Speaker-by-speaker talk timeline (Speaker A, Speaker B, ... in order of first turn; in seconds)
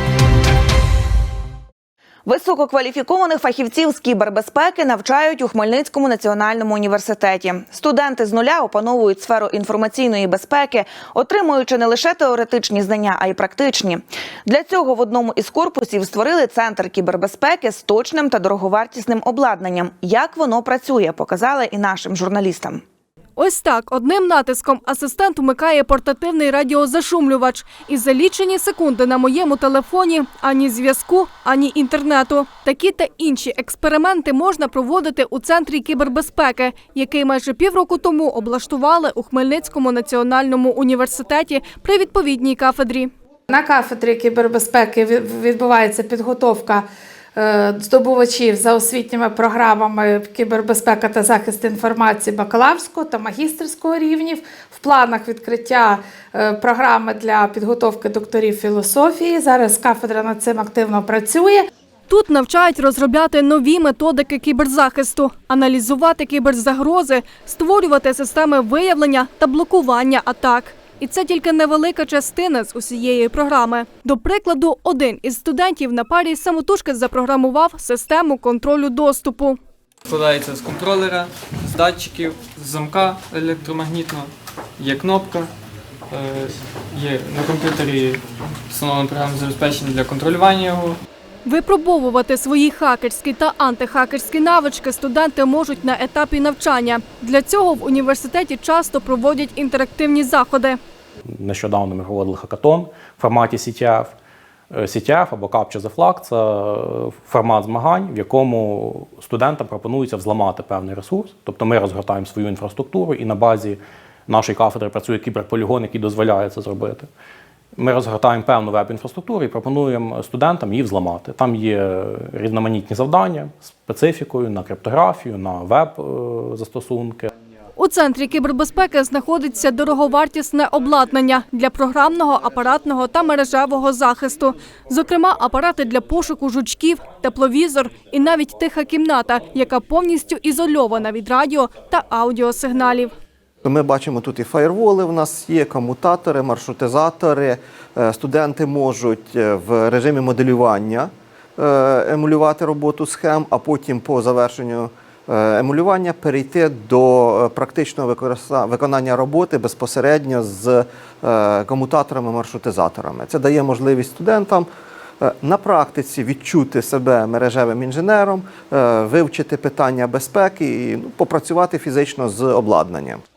Speaker A: 2.2-22.8
Speaker B: 23.4-43.1, 62.1-79.6, 91.4-100.8, 127.8-143.1
Speaker C: 43.5-61.7
Speaker D: 80.1-85.5, 86.1-91.0
Speaker E: 101.4-104.1, 104.7-117.1, 117.8-127.3
Speaker F: 143.6-164.7, 165.2-173.2